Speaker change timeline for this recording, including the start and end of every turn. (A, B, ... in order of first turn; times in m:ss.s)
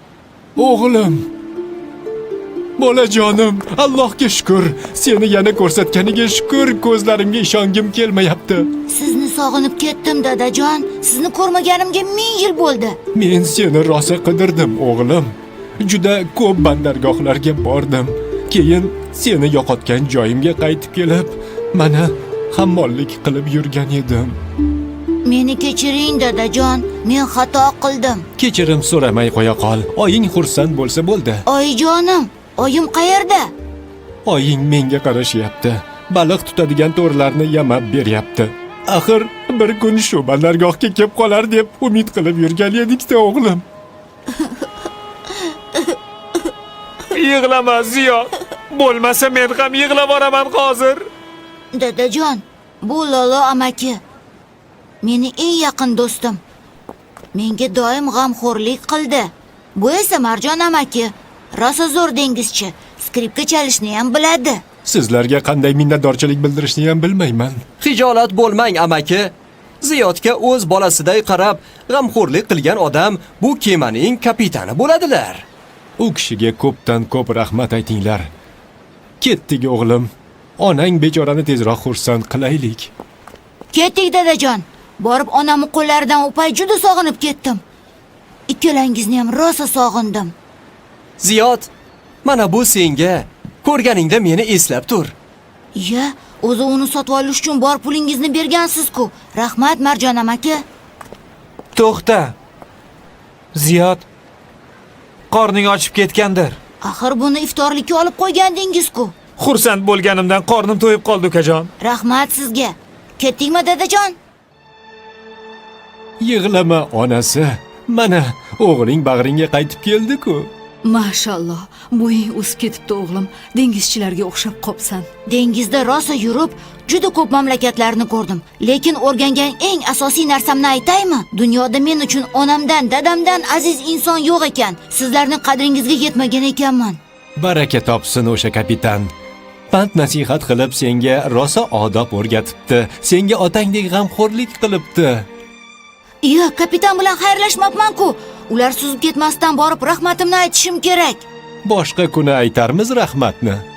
0:00.6-0:01.3 A
0:02.8-0:08.7 A
0:08.9-0:13.0 B
0:13.1-0:24.4 A
0:25.2-0:28.2 B
0:28.4-0:31.4 A
0:31.4-0:33.5 B
0:34.2-0:43.6 A
0:47.1-0:51.1 C
0:51.7-0:54.0 B
0:55.0-0:56.4 B
0:57.3-1:04.6 B
1:04.8-1:07.6 A
1:07.8-1:15.4 D
1:16.0-1:18.3 A
1:19.2-1:22.9 A
1:23.7-1:27.6 B
1:28.5-1:30.3 B
1:31.2-1:31.7 D
1:32.2-1:35.1 D
1:35.7-1:40.6 B
1:41.7-1:42.3 C
1:43.5-1:44.0 C
1:45.3-1:46.6 C
1:46.8-1:49.1 B
1:49.4-1:51.7 C
1:51.8-1:54.2 B
1:56.2-2:00.5 A
2:00.8-2:05.1 E
2:05.2-2:17.0 B
2:17.4-2:19.1 A
2:19.7-2:25.3 A
2:26.2-2:31.2 B
2:31.6-2:33.6 A